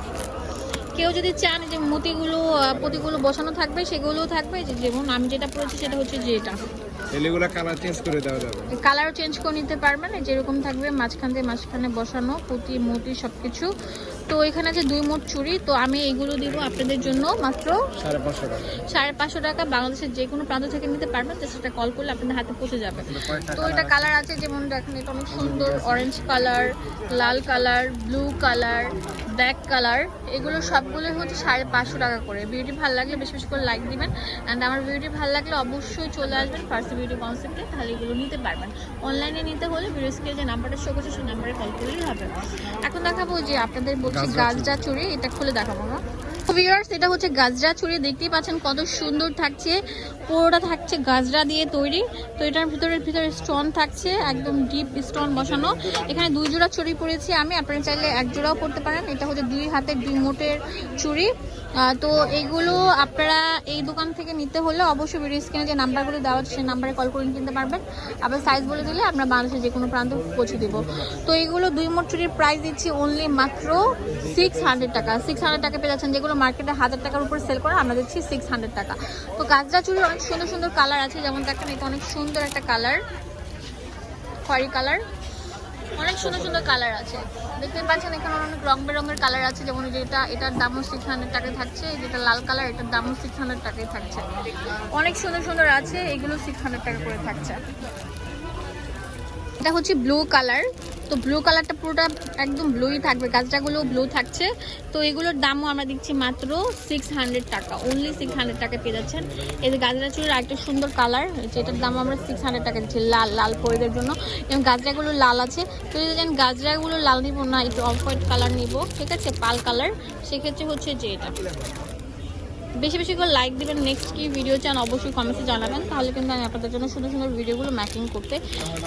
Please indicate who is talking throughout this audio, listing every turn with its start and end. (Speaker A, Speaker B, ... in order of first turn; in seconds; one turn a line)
Speaker A: 0.9-6.6
Speaker B: 7.1-8.7
Speaker A: 8.7-13.7
Speaker A: 14.3-17.9
Speaker B: 18.0-18.8
Speaker A: 18.8-83.0
Speaker B: 23.1-23.9
Speaker B: 44.1-44.6
Speaker A: 84.5-85.0
Speaker A: 86.0-94.3
Speaker A: 94.9-97.6
Speaker A: 99.6-121.3
Speaker A: 122.8-128.4